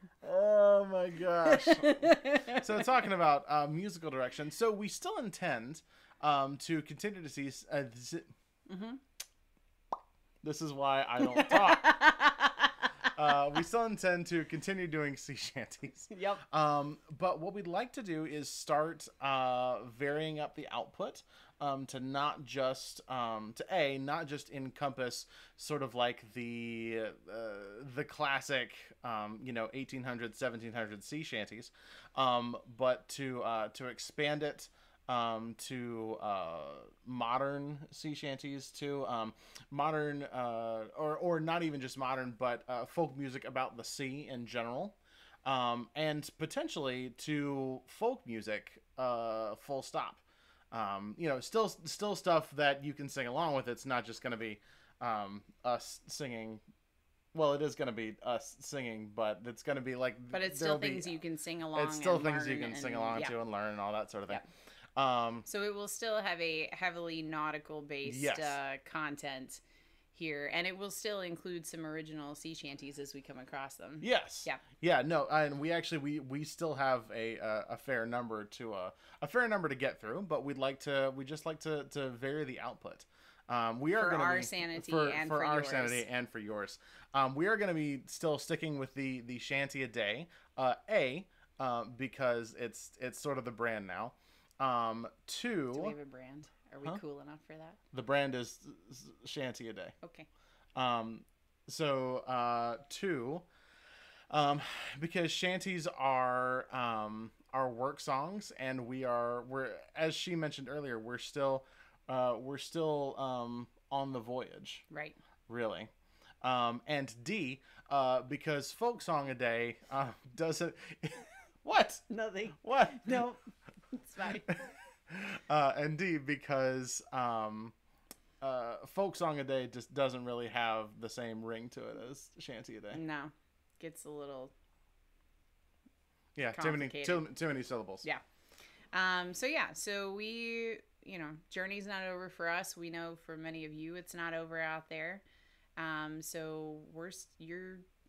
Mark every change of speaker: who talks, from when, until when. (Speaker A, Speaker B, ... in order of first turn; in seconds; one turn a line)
Speaker A: 0.2-8.3
Speaker B: 1.4-2.7
Speaker B: 8.7-9.0
Speaker A: 10.4-11.9
Speaker B: 11.2-13.1
Speaker A: 13.1-56.6
Speaker B: 16.1-16.4
Speaker A: 57.3-61.2
Speaker B: 60.3-63.4
Speaker A: 61.8-64.4
Speaker A: 65.0-65.5
Speaker B: 65.5-69.6
Speaker A: 68.0-68.6
Speaker B: 70.1-74.6
Speaker A: 74.0-96.0
Speaker B: 83.9-86.0
Speaker B: 95.7-97.8
Speaker A: 97.9-99.9
Speaker B: 100.0-100.3
Speaker A: 100.8-103.5
Speaker A: 104.3-114.8
Speaker B: 114.9-115.2
Speaker A: 115.5-115.9
Speaker A: 116.4-122.0
Speaker B: 122.1-124.6
Speaker A: 122.6-123.2
Speaker A: 125.1-127.7
Speaker A: 128.4-133.0
Speaker B: 132.9-134.5
Speaker A: 136.4-138.1
Speaker B: 136.5-137.2
Speaker B: 138.9-145.2
Speaker B: 145.8-147.8